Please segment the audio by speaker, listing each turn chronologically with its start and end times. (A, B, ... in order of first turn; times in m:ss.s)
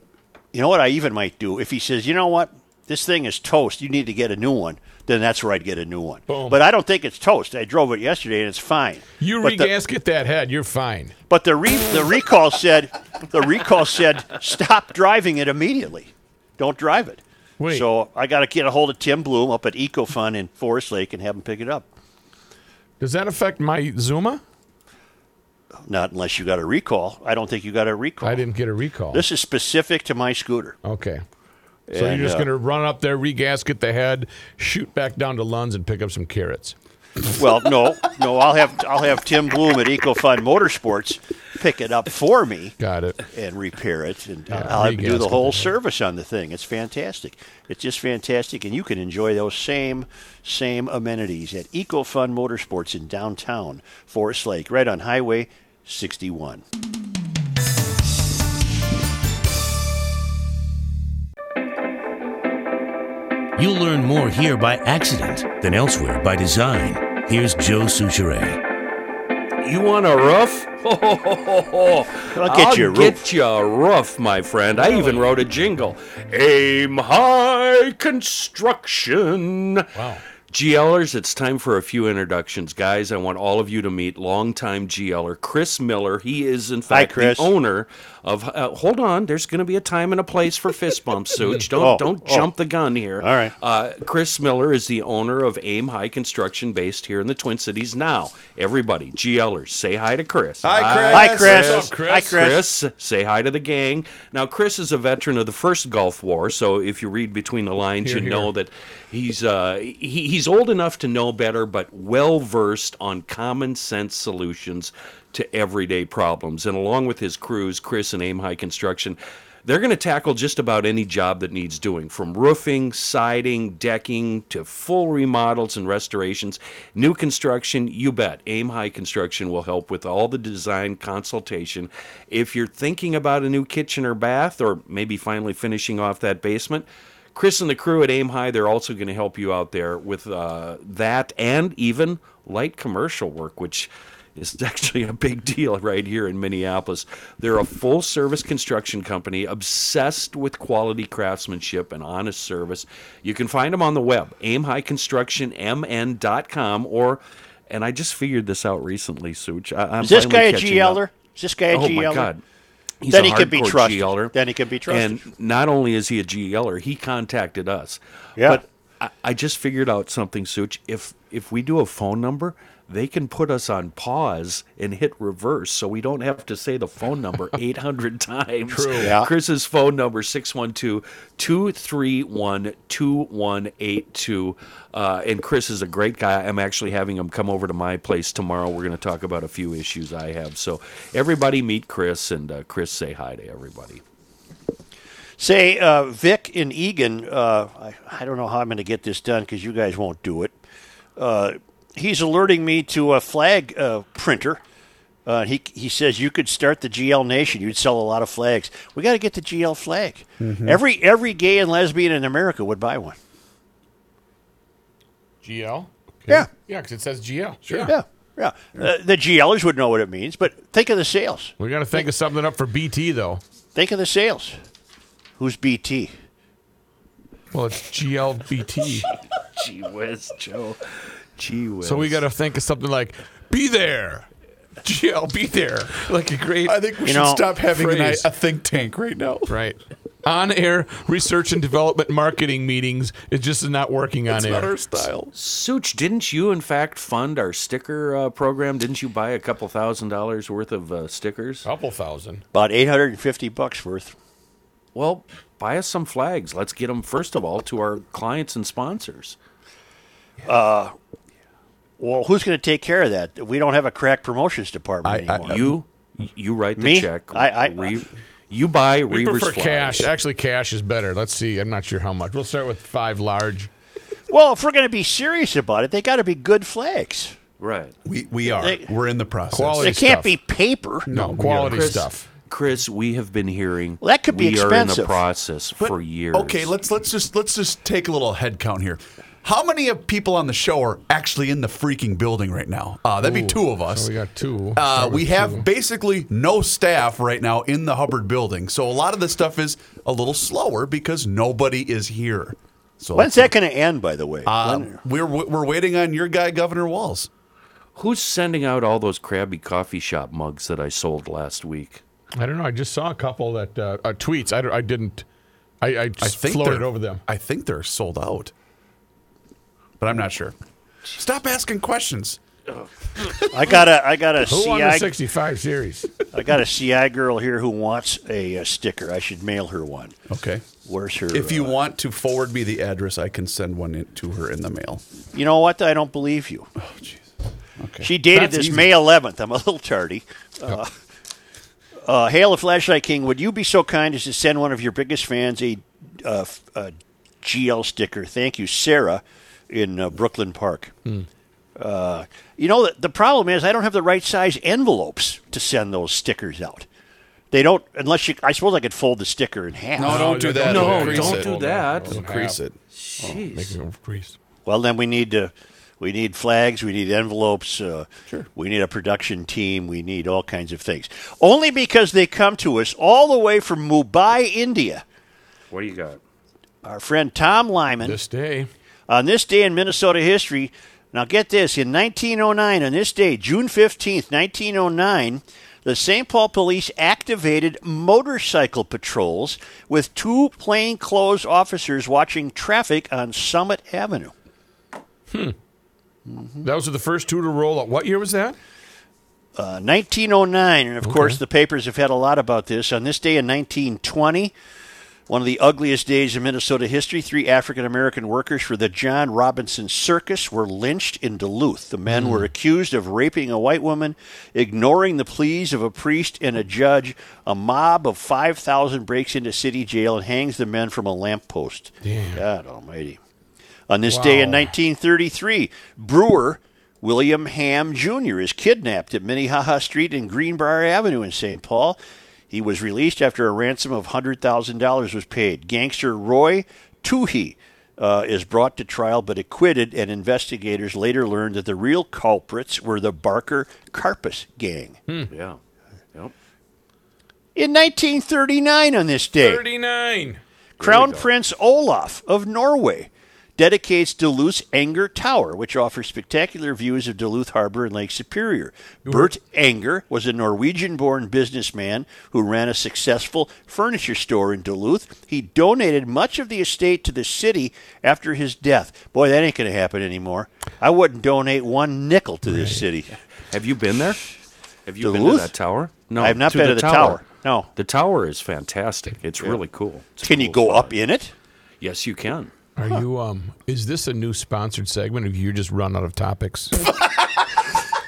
0:00.5-0:09.7 A
0:06.3-0:06.6 B
0:09.2-0:11.1 B
0:11.3-0:21.9 A
0:17.6-0:17.9 B
0:23.0-0:24.4 B
0:25.9-0:28.5 A
0:28.2-0:29.2 B
0:29.1-0:30.8 A
0:30.8-0:31.2 B
0:31.9-0:32.5 A
0:31.9-0:36.8 B
0:37.3-0:56.6 A
0:42.8-0:43.2 B
0:44.5-0:45.7 B
1:03.6-1:08.6 C
1:09.6-1:19.9 D
1:12.3-1:13.3 A
1:14.9-1:15.3 B
1:20.0-1:20.2 B
1:20.5-2:41.0 D
1:26.9-1:27.5 A
1:31.4-1:31.7 B
1:31.7-1:32.5 A
1:33.2-1:33.6 A
1:40.6-1:41.8 E
1:41.1-1:42.6 A
1:41.3-1:42.4 B
1:48.0-1:48.5 B
2:40.0-2:42.3 A
2:41.7-2:42.4 D
2:43.0-2:44.3 D
2:43.1-2:45.2 A
2:44.9-3:14.0 D
2:58.7-2:59.1 B
2:59.0-2:59.3 A
3:15.4-3:20.6 A
3:21.2-3:24.6 A
3:25.3-3:33.2 A
3:30.4-3:30.8 E
3:35.4-3:37.9 B
3:37.7-3:37.9 E
3:37.8-3:42.1 A
3:41.6-3:43.4 B
3:43.8-3:44.6 A
3:45.4-3:46.1 A
3:47.5-3:49.1 B
3:48.8-3:52.2 D
3:51.8-3:54.3 B
3:54.8-3:56.9 B
3:56.7-3:59.6 E
3:57.0-3:57.5 A
3:57.6-3:58.3 B
3:59.5-4:04.8 B
4:04.3-4:05.3 E
4:05.3-4:11.6 D
4:11.6-4:12.4 B
4:12.5-4:14.1 A
4:15.0-4:19.4 D
4:20.4-4:21.0 A
4:22.0-4:25.6 A
4:25.0-4:25.5 E
4:25.1-4:25.5 B
4:25.5-4:30.1 D
4:26.8-4:28.0 A
4:29.1-4:33.7 B
4:34.3-4:37.4 A
4:37.6-4:37.9 D
4:38.0-4:40.0 E
4:38.5-4:38.8 A
4:39.5-4:40.3 B
4:39.8-4:41.1 A
4:41.1-4:42.0 E
4:41.1-4:42.2 B
4:41.7-4:46.7 D
4:44.0-4:45.2 A
4:45.8-4:54.1 E
4:53.2-4:55.6 B
4:54.8-5:03.5 E
5:03.1-5:05.0 A
5:04.4-5:07.3 E
5:08.0-5:12.0 D
5:12.4-5:15.2 B
5:15.8-5:17.2 B
5:16.2-5:18.5 E
5:20.0-5:20.6 E
5:21.1-5:22.4 E
5:23.5-5:25.1 A
5:24.5-5:26.1 B
5:26.3-5:30.2 A
5:30.3-5:30.6 E
5:30.8-5:31.8 A
5:31.3-5:35.0 E
5:35.3-5:36.7 A
5:36.8-5:38.9 E
5:38.0-5:41.0 A
5:42.0-5:50.9 A
5:51.8-5:56.9 A
5:57.5-6:00.5 A
6:00.0-6:02.8 E
6:00.0-6:02.6 B
6:00.5-6:02.2 D
6:02.9-6:03.8 D
6:03.4-6:04.4 B
6:04.7-6:15.0 A
6:15.7-6:16.2 D
6:16.8-6:18.2 A
6:18.0-6:18.7 B
6:19.1-6:34.3 A
6:35.3-6:35.6 B
6:36.3-6:36.7 A
6:36.6-6:38.6 B
6:39.6-6:44.5 A
6:41.0-6:41.4 B
6:45.3-7:03.2 A
6:52.1-6:52.5 B
7:02.0-7:02.4 B
7:03.9-7:12.0 A
7:04.1-7:04.7 B
7:12.5-7:25.0 A
7:25.3-7:25.6 D
7:27.6-7:29.6 A
7:29.4-7:30.4 B
7:30.8-7:31.3 D
7:30.8-7:53.2 A
7:39.0-7:39.3 B
7:52.5-7:52.8 B
7:53.5-7:54.3 D
7:54.9-7:57.2 D
7:55.0-7:55.5 A
7:56.2-7:57.7 A
7:57.8-8:00.9 D
8:00.2-8:01.3 A
8:01.8-8:02.5 D
8:02.8-8:06.9 B